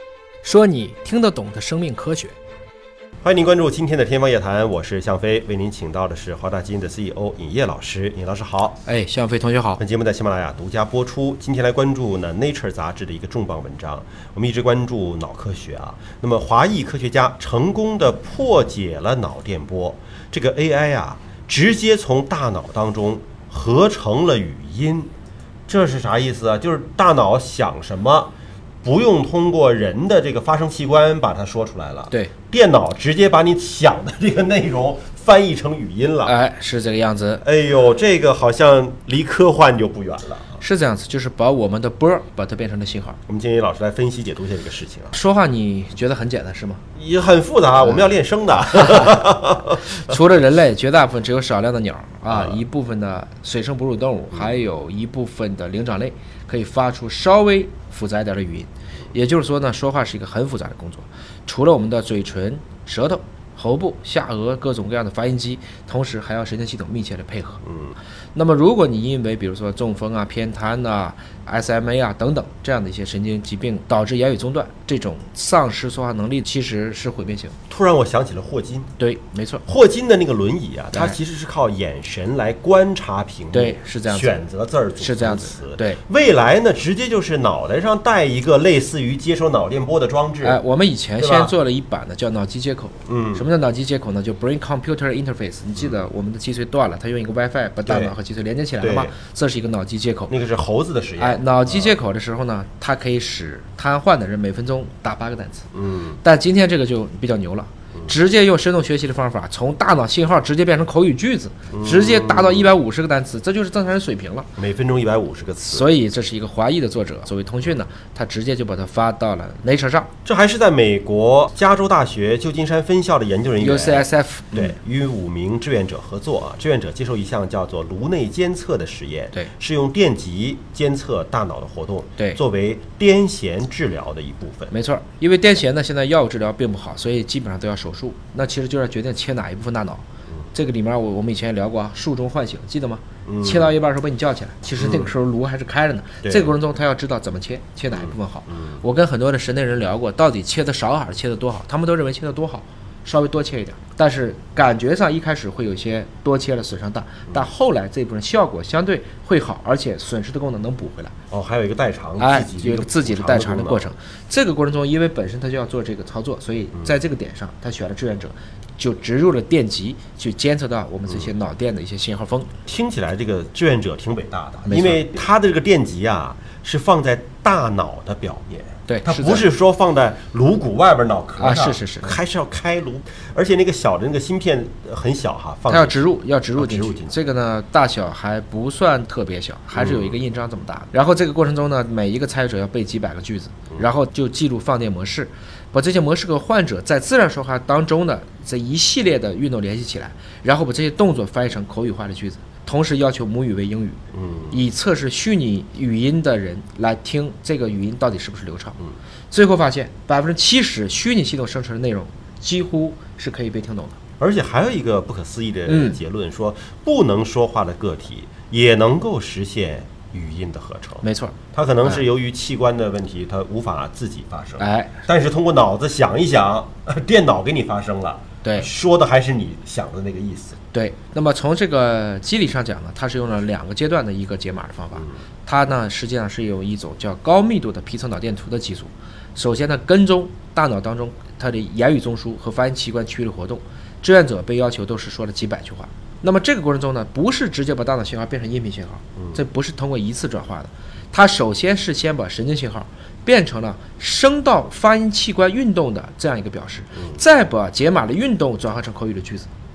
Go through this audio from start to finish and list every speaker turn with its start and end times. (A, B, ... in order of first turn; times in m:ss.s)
0:00.4-0:02.4 A
0:03.2-0:08.8 B
0:08.8-0:09.8 A
0:09.8-0:25.1 B
0:25.7-0:28.3 B
0:28.8-0:36.3 B
0:36.2-0:37.4 A
0:37.4-0:40.6 B
0:40.6-0:43.2 A
0:43.3-0:45.2 B
0:45.1-0:46.8 A
0:47.0-0:49.9 B
0:48.8-0:49.2 A
0:49.8-1:07.6 A
0:52.3-0:52.6 B
1:07.6-1:08.0 B
1:08.3-1:17.6 A
1:17.7-1:18.9 B
1:19.0-1:19.6 A
1:19.7-1:30.6 B
1:20.9-1:21.2 A
1:23.5-1:24.4 A
1:25.0-1:26.0 A
1:30.4-1:40.3 A
1:31.2-1:31.5 B
1:33.1-1:33.4 B
1:37.9-1:38.2 B
1:38.8-1:39.1 B
1:40.3-1:42.0 B
1:41.2-1:45.7 A
1:45.7-1:46.2 B
1:46.2-1:54.5 A
1:51.7-1:52.7 B
1:54.6-1:55.9 B
1:55.7-2:00.1 A
2:00.2-2:14.7 B
2:03.6-2:04.8 A
2:14.7-2:41.1 A
2:23.3-2:23.7 B
2:24.8-2:25.1 B
2:26.2-2:26.5 B
2:27.9-2:28.8 B
2:41.3-2:43.9 B
2:42.2-2:52.5 A
2:51.1-2:51.3 B
2:52.6-3:06.0 B
2:54.7-2:55.1 A
2:58.9-2:59.5 A
3:01.4-3:02.2 A
3:05.7-3:24.0 A
3:06.6-3:07.2 B
3:09.7-3:10.2 B
3:24.1-3:24.7 B
3:24.5-3:28.8 A
3:29.3-3:34.0 A
3:34.2-3:50.6 B
3:35.7-3:36.0 A
3:41.0-3:42.0 A
3:44.6-3:44.9 A
3:50.7-4:19.5 A
4:09.2-4:09.4 B